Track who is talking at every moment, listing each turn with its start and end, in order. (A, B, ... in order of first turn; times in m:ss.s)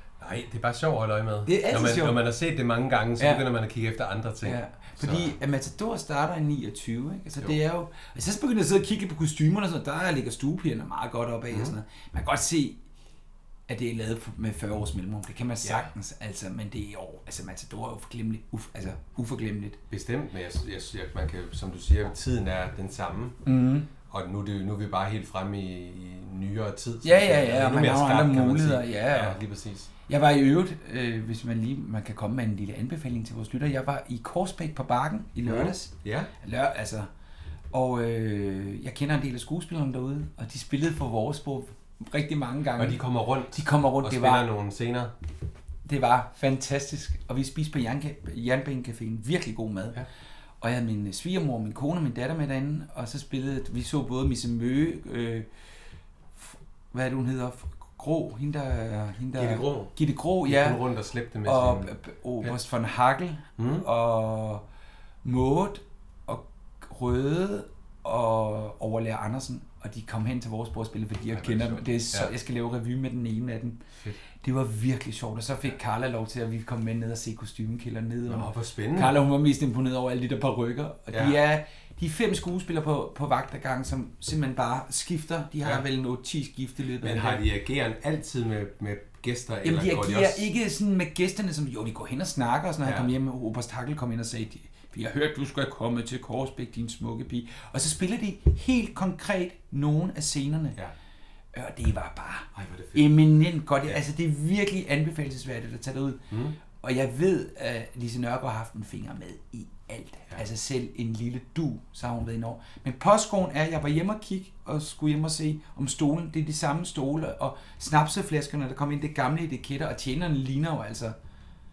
0:00.2-0:05.3 A
0:01.4-0:02.2 B
0:03.2-0:03.4 B
0:04.4-0:12.8 B
0:11.5-0:11.7 A
0:13.7-0:19.8 B
0:15.6-0:15.9 A
0:19.9-0:23.5 A
0:23.4-0:23.9 B
0:24.1-0:29.9 A
0:27.0-0:29.4 B
0:30.1-0:37.1 B
0:35.4-0:36.3 A
0:37.7-0:43.0 B
0:42.8-0:45.1 A
0:43.5-0:44.5 B
0:45.8-0:50.0 B
0:50.6-0:55.5 B
0:56.3-1:00.8 B
0:59.4-1:02.6 A
1:01.4-1:04.6 B
1:03.6-1:03.8 A
1:05.2-1:13.8 B
1:11.3-1:12.3 A
1:14.3-1:27.4 B
1:18.2-1:19.2 A
1:21.1-1:21.4 A
1:27.0-1:30.4 A
1:29.6-1:40.8 B
1:32.8-1:33.1 A
1:41.5-2:01.1 B
1:42.5-1:43.2 A
1:46.3-1:46.6 A